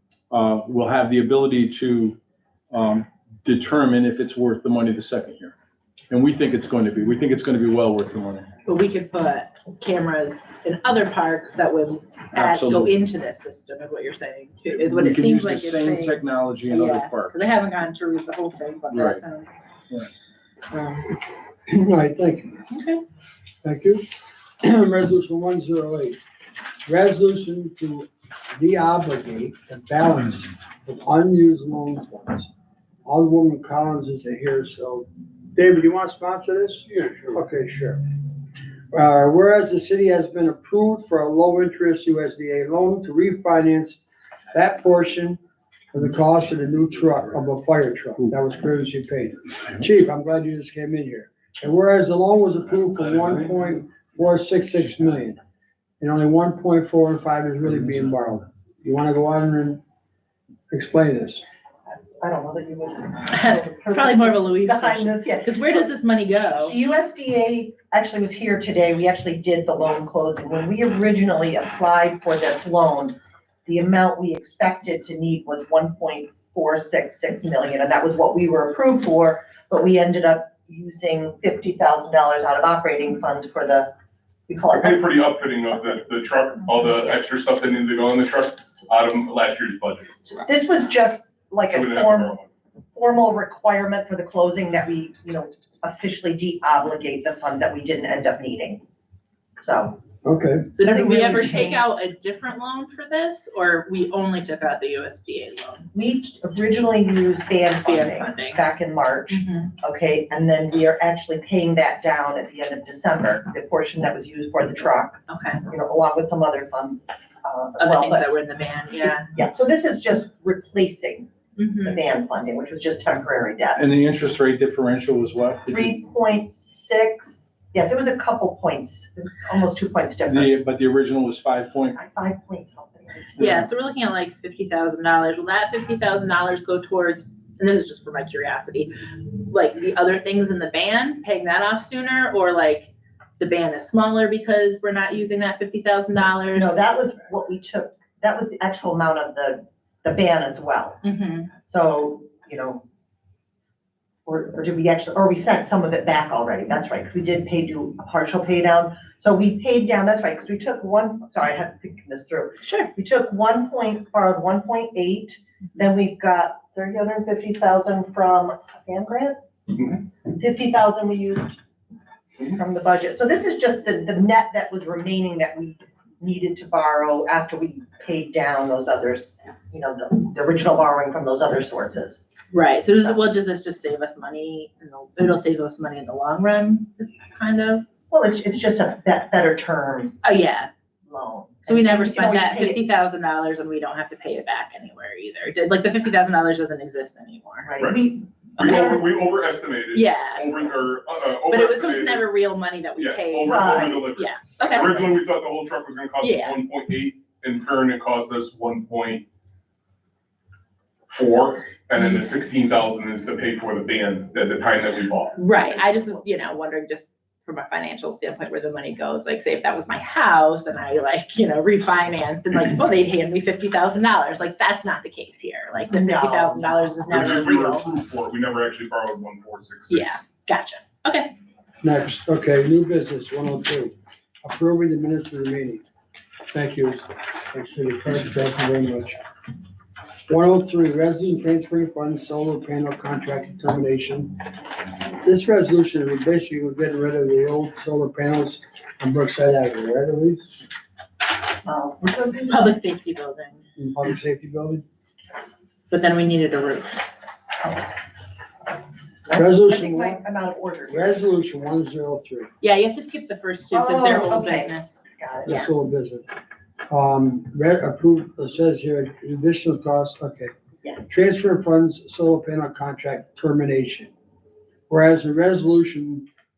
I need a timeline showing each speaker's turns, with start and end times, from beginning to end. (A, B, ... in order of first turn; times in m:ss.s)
0:00.3-0:02.2 A
0:02.7-0:05.5 A
0:06.1-0:08.5 A
0:08.6-0:19.6 B
0:12.3-0:12.9 A
0:14.7-0:17.4 A
0:18.9-0:19.2 A
0:20.7-0:21.1 B
0:21.7-0:22.6 C
0:22.7-0:23.0 B
0:23.6-0:24.1 C
0:24.6-0:26.2 C
0:26.8-0:32.5 C
0:33.0-0:38.0 C
0:38.9-0:44.0 C
0:44.5-0:45.4 C
0:45.9-0:55.4 C
0:56.0-0:59.8 C
1:00.7-1:01.4 C
1:02.2-1:05.9 D
1:03.3-1:06.8 B
1:06.4-1:23.9 D
1:24.5-1:25.1 D
1:24.7-1:30.3 E
1:30.3-1:32.3 D
1:31.7-1:32.5 E
1:32.9-1:38.8 D
1:39.6-1:40.0 D
1:40.2-1:40.7 C
1:40.7-1:45.8 B
1:40.8-1:41.9 D
1:45.9-1:58.3 D
1:47.8-1:48.6 B
1:49.3-1:49.7 B
1:55.3-1:55.6 B
1:57.8-1:59.3 B
1:59.3-2:01.3 D
2:01.6-2:02.0 B
2:01.8-2:03.8 D
2:03.8-2:06.0 A
2:05.7-2:10.6 D
2:10.2-2:12.0 A
2:11.9-2:13.6 D
2:13.4-2:26.8 B
2:26.5-2:31.0 D
2:31.0-2:31.5 B
2:31.6-2:32.8 D
2:34.2-2:51.6 D
2:42.6-2:42.9 B
2:52.4-3:02.2 D
3:02.5-3:07.8 B
3:08.1-3:10.2 D
3:10.2-3:10.7 B
3:11.0-3:12.8 D
3:11.6-3:17.7 B
3:17.6-3:19.0 D
3:18.6-3:22.3 E
3:18.6-3:19.0 B
3:19.9-3:20.8 B
3:21.5-3:25.1 B
3:23.0-3:29.2 E
3:23.4-3:24.1 D
3:26.2-3:26.6 B
3:31.1-3:35.4 E
3:35.4-3:47.9 B
3:35.6-3:36.2 D
3:45.9-3:46.9 D
3:47.0-3:50.2 E
3:49.9-3:51.3 B
3:51.8-3:55.8 C
3:56.5-3:59.2 C
4:00.3-4:04.4 C
4:05.2-4:10.6 C
4:11.6-4:12.7 D
4:12.5-4:13.6 B
4:13.8-4:14.8 C
4:15.9-4:17.0 B
4:19.3-4:21.1 D
4:19.3-4:20.2 C
4:20.9-4:22.5 C
4:22.6-4:25.7 B
4:23.7-4:25.5 D
4:25.4-4:26.2 C
4:26.9-4:30.5 C
4:31.1-4:34.1 C
4:34.9-4:36.2 C